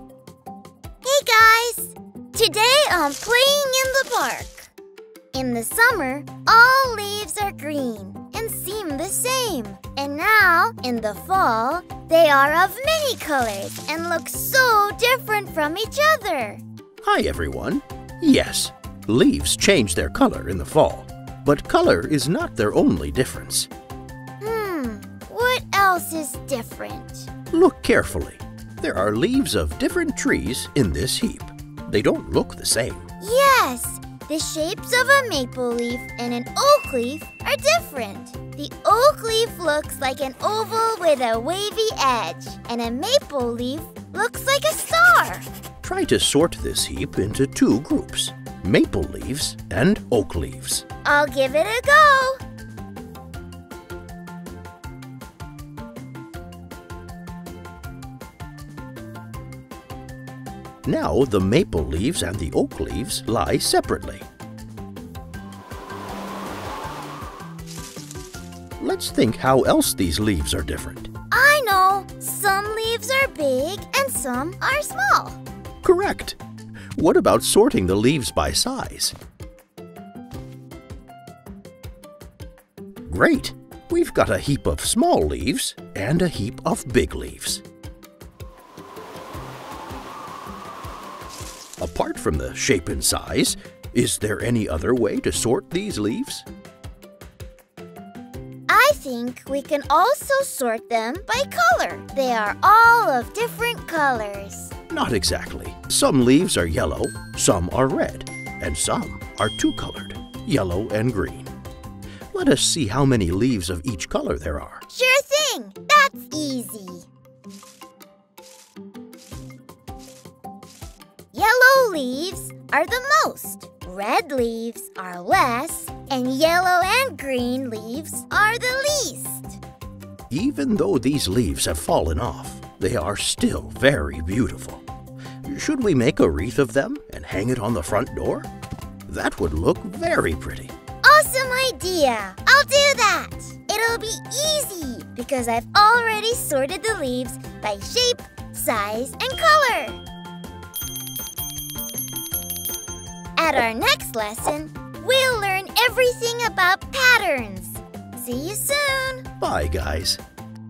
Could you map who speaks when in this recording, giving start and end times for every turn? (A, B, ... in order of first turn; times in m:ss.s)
0:01.0-0:04.7 A
0:05.3-0:16.6 A
0:17.0-0:23.7 B
0:24.4-0:27.3 A
0:27.5-0:33.1 B
0:33.2-0:45.4 A
0:45.8-0:50.8 B
0:51.0-0:52.4 A
1:00.8-1:04.3 B
1:08.8-1:11.1 B
1:11.3-1:15.4 A
1:15.8-1:16.4 B
1:16.9-1:19.1 B
1:23.1-1:27.6 B
1:31.8-1:36.4 B
1:38.7-1:44.7 A
1:44.9-1:51.5 B
1:52.3-1:54.8 B
1:54.9-1:57.0 A
2:01.3-2:09.6 A
2:10.3-2:14.8 B
2:15.4-2:18.5 B
2:19.1-2:20.7 B
2:21.0-2:30.0 A
2:33.4-2:39.2 A
2:39.4-2:40.2 B